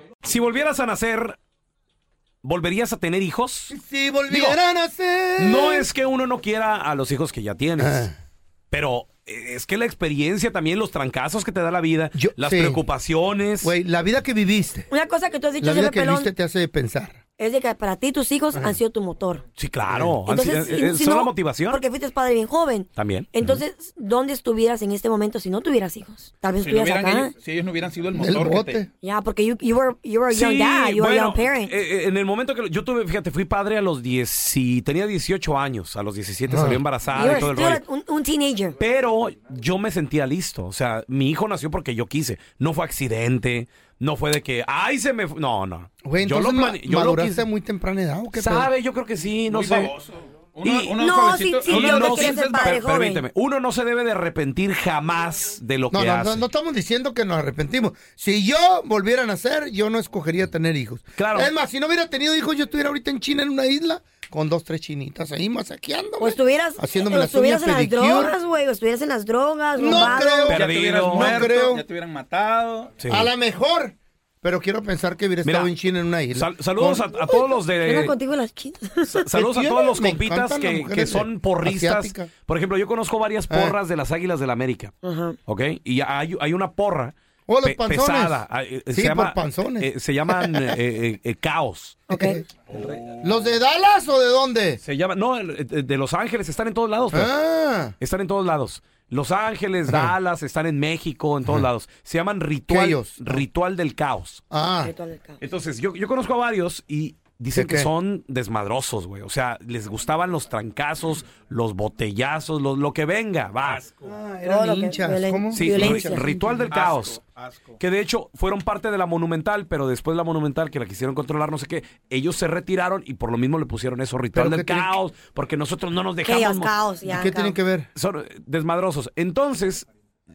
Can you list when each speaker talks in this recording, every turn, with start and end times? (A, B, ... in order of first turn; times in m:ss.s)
0:00.2-0:01.4 A
0:02.4-0:03.7 A
0:03.7-0:05.9 B
0:04.3-0:04.6 A
0:05.4-0:08.1 A
0:07.8-0:08.1 B
0:08.7-0:13.7 A
0:12.1-0:12.8 B
0:13.6-0:14.9 B
0:14.9-0:16.3 C
0:15.6-0:17.2 B
0:17.4-0:19.4 C
0:19.6-0:21.8 A
0:19.9-0:20.1 B
0:20.2-0:27.3 C
0:23.0-0:23.4 A
0:26.6-0:28.8 D
0:28.1-0:28.9 B
0:29.0-0:31.7 C
0:30.3-0:37.8 A
0:36.5-0:36.8 B
0:37.1-0:38.8 C
0:38.8-0:47.4 A
0:46.0-0:48.7 B
0:48.3-0:49.9 A
0:49.5-0:52.8 D
0:50.6-0:51.0 A
0:51.0-0:53.2 C
0:51.7-0:56.4 A
0:55.9-1:08.4 B
1:01.2-1:01.5 A
1:06.2-1:10.5 C
1:09.8-1:11.9 B
1:10.0-1:13.0 D
1:10.5-1:11.5 A
1:13.0-1:13.3 A
1:13.1-1:17.1 B
1:15.4-1:15.7 A
1:16.3-1:18.2 A
1:17.3-1:19.2 C
1:19.1-1:25.0 A
1:19.3-1:22.3 B
1:23.5-1:23.8 B
1:25.0-1:25.4 C
1:25.5-1:32.0 A
1:27.5-1:30.7 B
1:32.1-1:32.4 C
1:32.1-1:32.5 B
1:32.7-1:33.2 A
1:33.2-1:34.8 B
1:34.8-1:37.4 A
1:37.1-1:37.9 B
1:38.0-1:44.4 A
1:39.9-1:40.1 B
1:42.7-1:43.4 B
1:44.5-1:44.9 B
1:44.8-1:45.4 C
1:45.4-1:53.8 A
1:47.5-1:47.9 B
1:53.6-1:54.1 D
1:54.0-1:56.7 B
1:54.4-1:56.6 C
1:55.5-1:57.2 A
1:56.7-1:57.8 D
1:57.8-2:06.7 A
2:04.3-2:05.0 B
2:06.2-2:07.6 C
2:07.0-2:07.9 B
2:07.9-2:09.9 A